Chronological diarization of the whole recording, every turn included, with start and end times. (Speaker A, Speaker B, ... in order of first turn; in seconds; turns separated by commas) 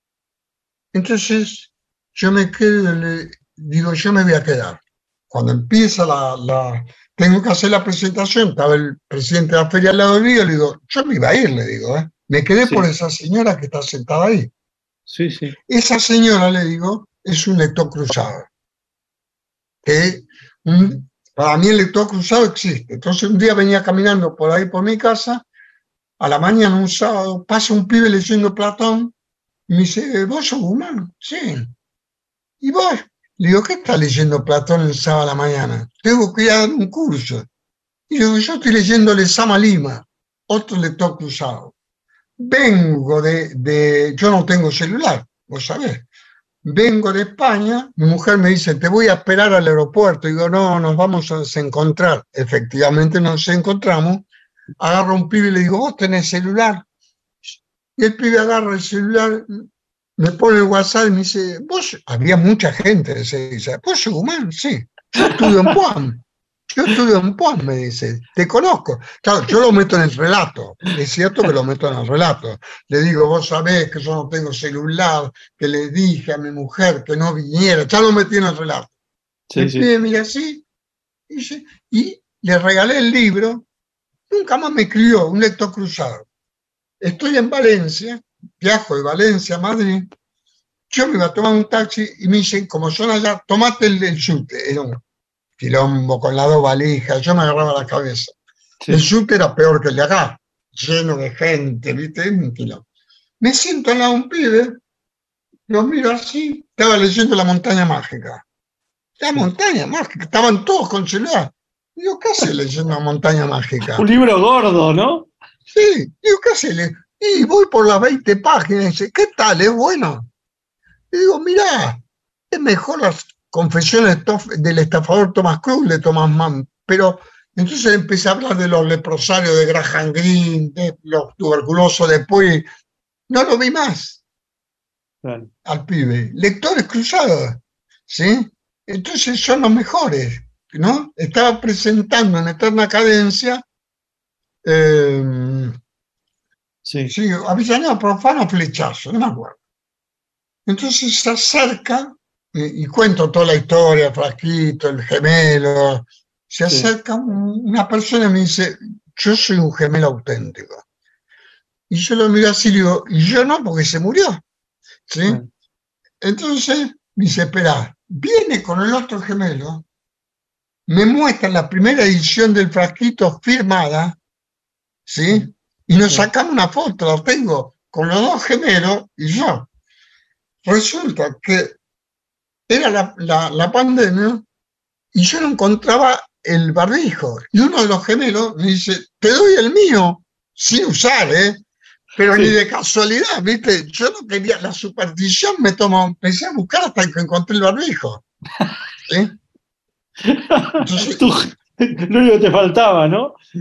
Speaker A: 0.9-14.5, Speaker B: 15.1-15.5, Speaker A: 15.7-18.5, Speaker A: 19.8-25.4, Speaker A: 26.2-29.1, Speaker A: 29.7-31.7, Speaker A: 32.6-37.5, Speaker A: 38.1-41.7, Speaker A: 42.4-46.1, Speaker A: 46.6-54.2, Speaker A: 54.8-56.8, Speaker A: 57.5-59.6, Speaker A: 60.2-78.9, Speaker B: 79.5-79.9, Speaker A: 79.5-80.6, Speaker A: 81.3-83.7, Speaker A: 84.3-86.2, Speaker A: 87.0-90.1, Speaker A: 90.9-95.0, Speaker A: 95.6-98.3, Speaker A: 98.9-102.8, Speaker A: 103.4-104.8, Speaker A: 105.7-108.4, Speaker A: 109.2-114.1, Speaker B: 113.8-115.3, Speaker A: 115.7-120.3, Speaker A: 121.1-132.7, Speaker A: 133.3-134.2, Speaker B: 135.2-135.5, Speaker A: 135.6-143.6, Speaker A: 144.6-145.8, Speaker B: 146.8-147.1, Speaker A: 147.1-149.6, Speaker A: 150.7-160.8, Speaker A: 161.9-164.4, Speaker A: 165.1-165.4, Speaker A: 166.2-169.8, Speaker A: 170.9-174.2, Speaker A: 175.1-179.7, Speaker A: 180.6-181.8, Speaker A: 182.7-184.4, Speaker A: 185.1-191.6, Speaker A: 192.2-198.2, Speaker A: 199.1-199.4, Speaker B: 200.3-203.4, Speaker A: 200.8-201.3